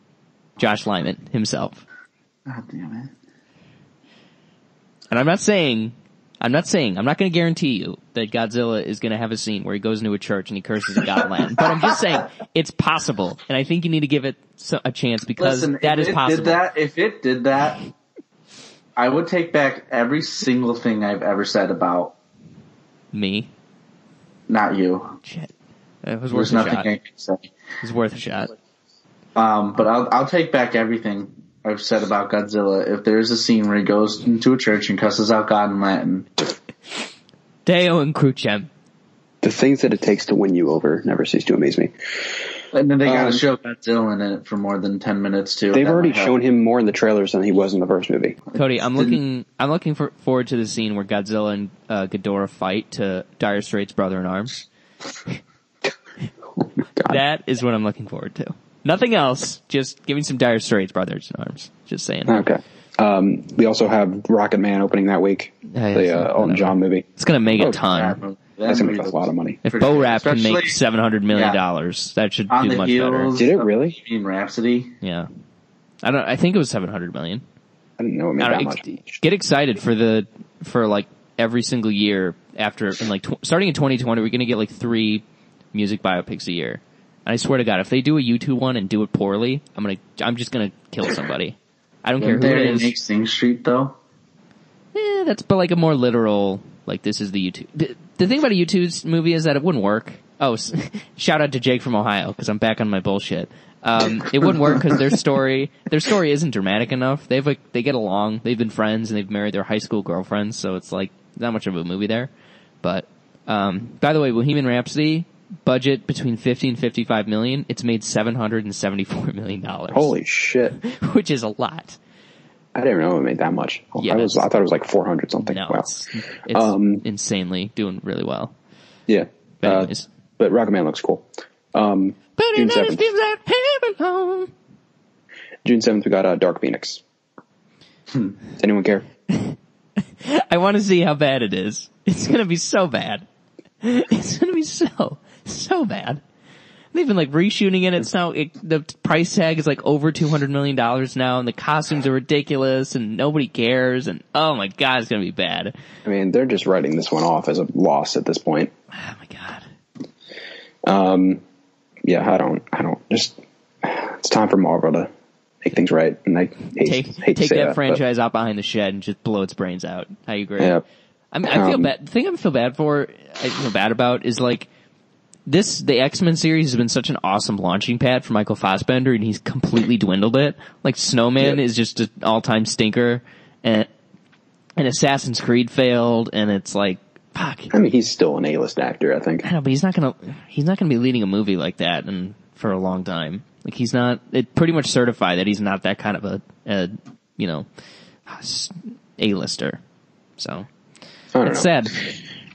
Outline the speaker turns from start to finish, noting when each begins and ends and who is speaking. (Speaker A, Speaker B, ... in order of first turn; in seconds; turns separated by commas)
Speaker A: 0.6-1.8, Speaker B: 2.5-3.1, Speaker A: 5.1-16.6, Speaker B: 15.4-17.8, Speaker B: 19.0-22.1, Speaker A: 23.1-23.5, Speaker B: 24.5-25.2, Speaker A: 25.2-25.5, Speaker A: 26.0-26.9, Speaker B: 26.3-27.5, Speaker A: 27.8-28.5, Speaker B: 29.4-36.3, Speaker A: 37.7-38.7, Speaker C: 39.4-41.9, Speaker B: 42.7-46.3, Speaker C: 43.0-43.4, Speaker C: 45.7-48.4, Speaker B: 48.5-49.2, Speaker A: 48.5-54.6, Speaker C: 56.8-57.2, Speaker A: 57.0-62.4, Speaker C: 62.3-67.8, Speaker A: 65.7-68.2, Speaker B: 67.7-70.8, Speaker C: 68.6-69.6, Speaker A: 69.6-73.3, Speaker B: 71.3-71.6, Speaker B: 72.5-74.9, Speaker C: 73.3-74.0, Speaker A: 75.0-75.3, Speaker A: 76.0-77.4, Speaker C: 78.0-79.2, Speaker A: 78.4-92.9, Speaker B: 92.2-94.0, Speaker A: 94.9-112.3, Speaker A: 112.8-120.1, Speaker C: 119.9-120.8, Speaker A: 120.7-122.0, Speaker C: 122.7-125.9, Speaker A: 124.0-124.5, Speaker A: 125.5-128.5, Speaker C: 126.5-127.0, Speaker C: 129.1-133.1, Speaker A: 129.6-130.1, Speaker A: 132.4-134.5, Speaker C: 135.6-137.0, Speaker C: 138.6-139.1, Speaker A: 139.3-139.6, Speaker A: 140.2-143.3, Speaker A: 143.8-146.2, Speaker A: 146.9-155.7, Speaker C: 156.1-158.7, Speaker A: 158.9-159.7, Speaker C: 160.9-161.4, Speaker C: 162.1-165.1, Speaker C: 165.6-168.0, Speaker A: 166.8-170.8, Speaker A: 171.3-174.7, Speaker C: 171.4-171.9, Speaker A: 175.5-183.9, Speaker A: 184.8-187.7, Speaker C: 187.7-189.4, Speaker A: 189.4-197.7, Speaker A: 198.3-199.8, Speaker A: 200.4-200.7, Speaker C: 201.3-202.1, Speaker A: 201.4-202.0